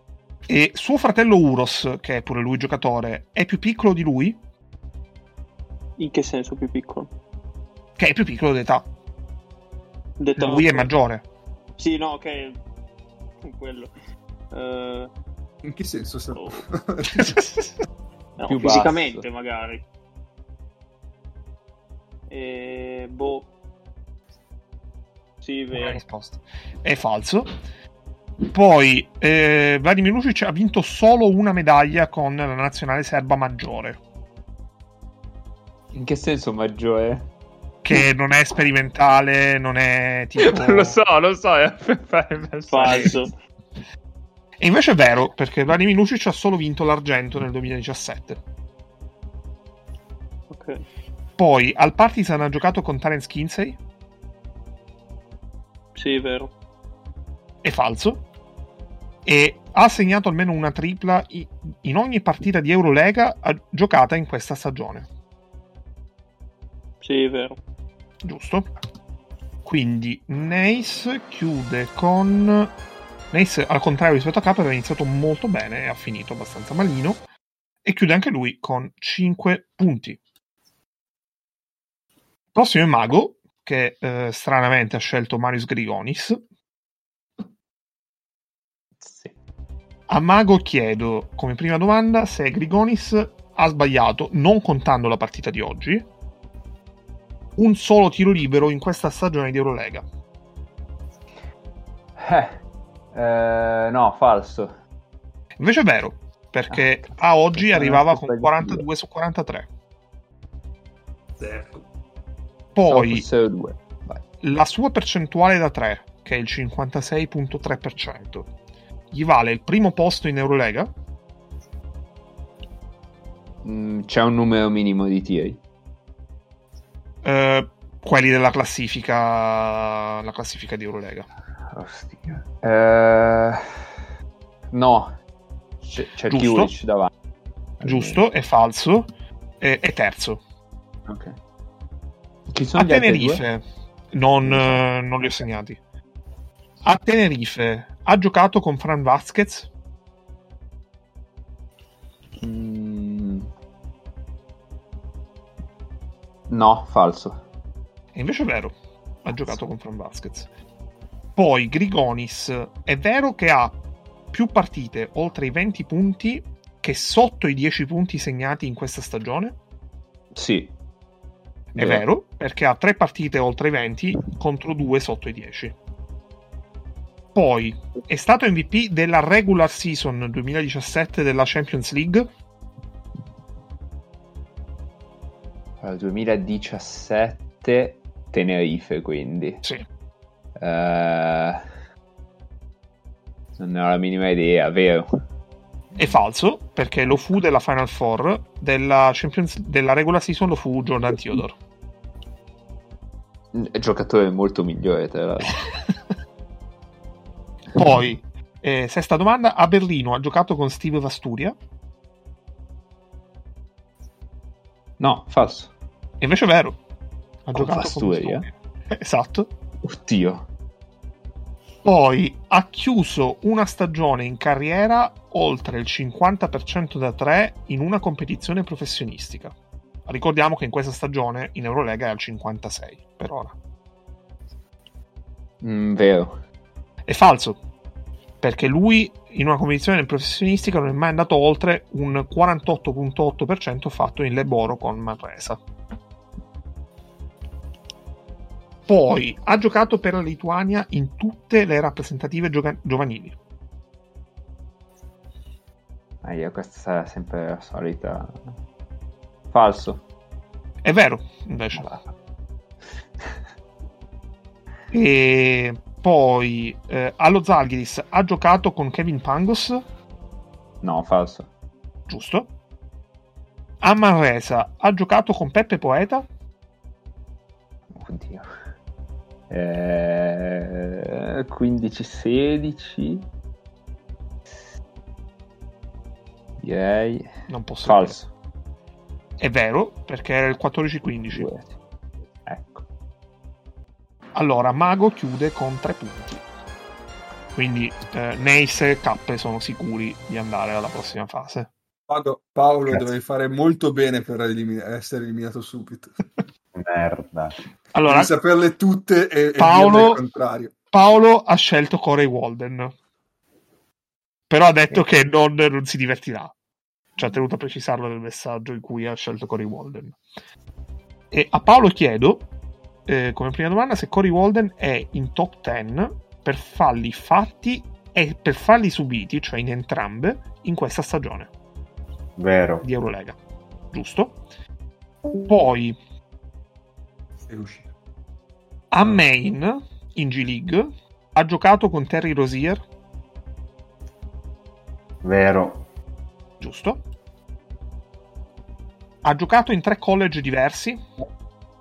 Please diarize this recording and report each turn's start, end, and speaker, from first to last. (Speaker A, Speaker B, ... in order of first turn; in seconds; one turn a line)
Speaker A: 0.5-4.4
Speaker B: 6.0-7.1
Speaker A: 8.0-8.9
Speaker B: 10.2-10.9
Speaker A: 10.4-11.2
Speaker B: 11.8-12.6
Speaker B: 13.4-13.9
Speaker B: 14.5-15.1
Speaker C: 15.6-17.4
Speaker B: 16.3-16.6
Speaker A: 17.2-17.7
Speaker B: 18.4-19.8
Speaker D: 18.5-19.2
Speaker B: 22.3-23.5
Speaker B: 25.4-26.0
Speaker A: 25.7-27.5
Speaker A: 28.5-34.0
Speaker D: 35.9-37.3
Speaker A: 37.8-41.0
Speaker D: 40.4-43.2
Speaker B: 42.7-43.3
Speaker A: 44.6-48.4
Speaker B: 50.5-50.8
Speaker A: 51.4-53.8
Speaker B: 56.0-56.5
Speaker A: 57.6-58.2
Speaker A: 59.2-65.1
Speaker B: 67.0-67.6
Speaker A: 68.2-68.7
Speaker A: 69.7-72.7
Speaker A: 73.3-77.2
Speaker A: 77.8-80.2
Speaker A: 82.5-86.4
Speaker D: 89.0-89.3
Speaker A: 90.1-96.1
Speaker A: 97.6-100.0
Speaker D: 102.2-102.6
Speaker D: 103.1-104.8
Speaker A: 105.6-109.7
Speaker D: 106.7-108.9
Speaker C: 111.4-111.8
Speaker A: 112.8-113.2
Speaker D: 112.9-114.2
Speaker A: 114.4-118.5
Speaker A: 119.1-120.9
Speaker D: 123.6-125.6
Speaker A: 127.2-131.3
Speaker D: 131.7-133.6
Speaker D: 134.7-135.1
Speaker D: 135.8-137.1
Speaker A: 136.3-136.7
Speaker D: 137.8-138.2
Speaker A: 137.8-139.1
Speaker A: 139.6-140.4
Speaker D: 141.1-141.4
Speaker D: 142.5-143.4
Speaker A: 142.8-145.8
Speaker D: 144.4-144.8
Speaker A: 146.8-149.7
Speaker D: 152.4-153.5
Speaker D: 156.5-157.4
Speaker A: 158.2-158.7
Speaker A: 159.2-160.5
Speaker A: 161.4-163.8
Speaker A: 164.3-169.6
Speaker D: 170.3-170.7
Speaker A: 171.8-175.8
Speaker D: 171.8-172.1
Speaker A: 177.3-182.3
Speaker D: 185.8-189.6
Speaker D: 190.6-191.6
Speaker D: 193.6-195.1
Speaker A: 196.0-201.6
Speaker D: 203.5-205.6
Speaker A: 207.8-211.6
Speaker D: 215.0-215.7
Speaker A: 216.2-216.8
Speaker A: 217.5-219.5
Speaker D: 217.5-218.5
Speaker D: 219.8-220.5
Speaker A: 221.8-229.6
Speaker A: 230.1-233.5
Speaker D: 235.6-236.4
Speaker A: 237.1-237.6
Speaker A: 238.4-245.6
Speaker A: 248.9-253.3
Speaker D: 256.2-258.5
Speaker D: 259.5-260.0
Speaker A: 260.8-261.9
Speaker D: 261.8-262.1
Speaker A: 264.9-269.8
Speaker D: 270.8-271.5
Speaker A: 272.1-272.5
Speaker A: 273.8-276.3
Speaker D: 277.9-278.5
Speaker D: 279.5-283.3
Speaker D: 286.6-288.3
Speaker A: 287.5-288.2
Speaker A: 289.4-291.5
Speaker D: 291.3-291.7
Speaker D: 292.5-292.9
Speaker A: 294.4-296.4
Speaker A: 297.6-301.7
Speaker C: 302.1-306.1
Speaker E: 306.8-307.6
Speaker A: 307.9-308.3
Speaker C: 308.1-310.8
Speaker A: 309.6-310.2
Speaker A: 310.9-312.9
Speaker A: 314.5-316.5
Speaker A: 317.2-320.2
Speaker A: 321.3-322.5
Speaker A: 323.1-331.5
Speaker E: 332.4-332.9
Speaker A: 332.8-333.4
Speaker A: 333.9-334.4
Speaker A: 335.5-336.0
Speaker C: 337.5-337.9
Speaker A: 338.9-342.8
Speaker E: 345.2-345.8
Speaker A: 346.6-347.0
Speaker A: 349.2-351.0